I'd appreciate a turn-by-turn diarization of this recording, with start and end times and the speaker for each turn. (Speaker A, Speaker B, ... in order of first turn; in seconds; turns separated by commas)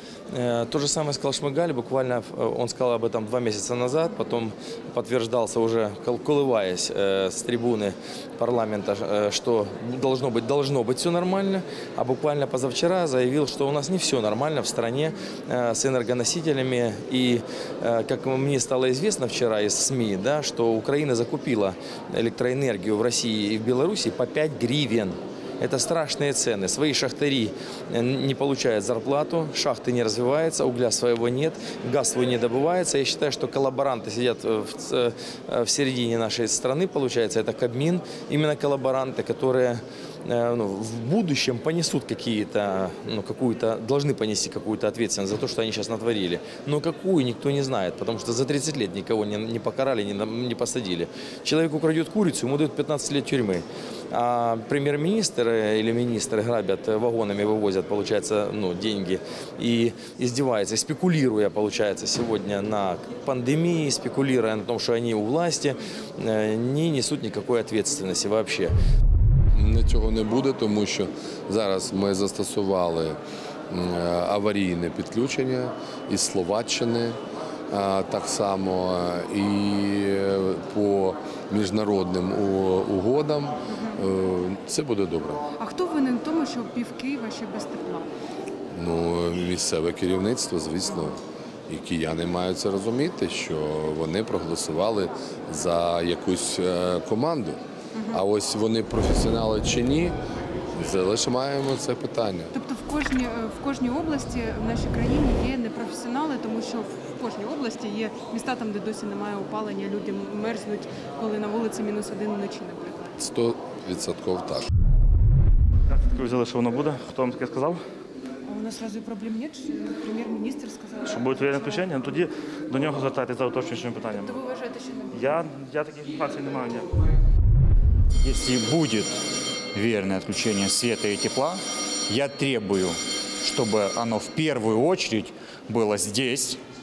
Speaker A: 0.3-68.7, Speaker B: 69.5-77.2, Speaker B: 77.7-85.4, Speaker C: 85.5-88.1, Speaker B: 88.7-97.6, Speaker C: 98.0-98.2, Speaker B: 98.1-100.1, Speaker B: 100.7-102.5, Speaker C: 102.5-113.1, Speaker B: 113.2-114.7, Speaker D: 115.9-117.8, Speaker C: 118.5-121.9, Speaker D: 121.0-124.4, Speaker C: 124.1-125.3, Speaker D: 125.1-126.9, Speaker E: 128.2-129.1, Speaker E: 129.7-136.6